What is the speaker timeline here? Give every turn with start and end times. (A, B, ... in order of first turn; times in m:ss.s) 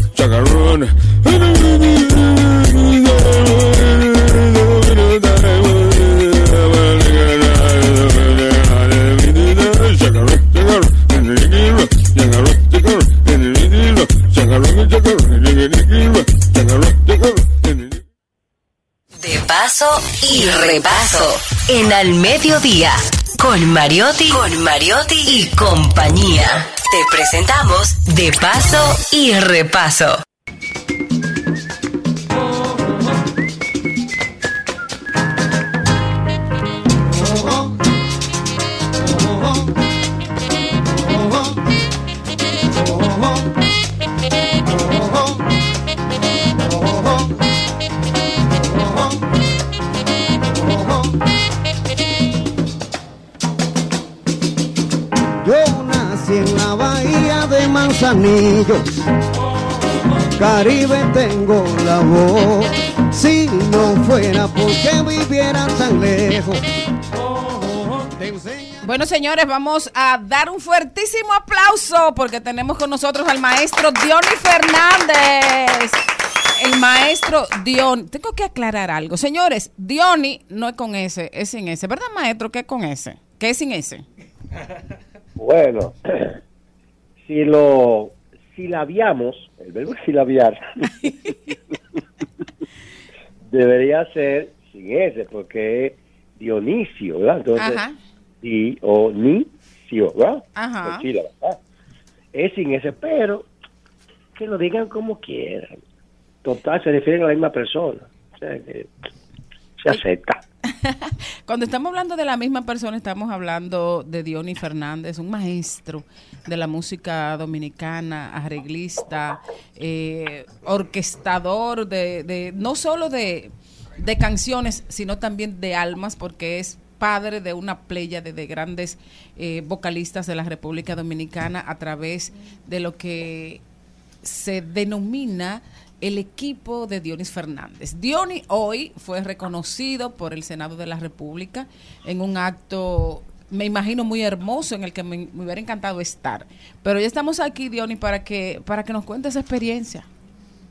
0:19.2-0:30.2 A
0:37.2-0:37.6 B
0:40.9-0:41.6 B
0:42.8-0:43.5 B
0:44.7-0:45.3 B
0:46.6-0:47.3 B
0:48.6-0:49.2 B
0:50.5-0:51.0 B
0:55.4-0:58.8 B
1:00.3-1:06.6 B
1:07.3-1:08.8 B
1:08.8-1:16.0 C
1:16.6-1:24.0 C
1:25.4-1:26.4 D
1:27.2-1:31.3 D
1:33.5-1:37.8 D
1:37.6-1:38.0 C
1:38.4-1:41.6 D
1:40.6-1:41.1 C
1:42.3-1:43.5 D
1:44.4-1:45.8 D
1:46.4-1:48.9 D
1:49.8-1:50.4 D
1:50.7-2:13.6 C
2:14.2-2:30.1 C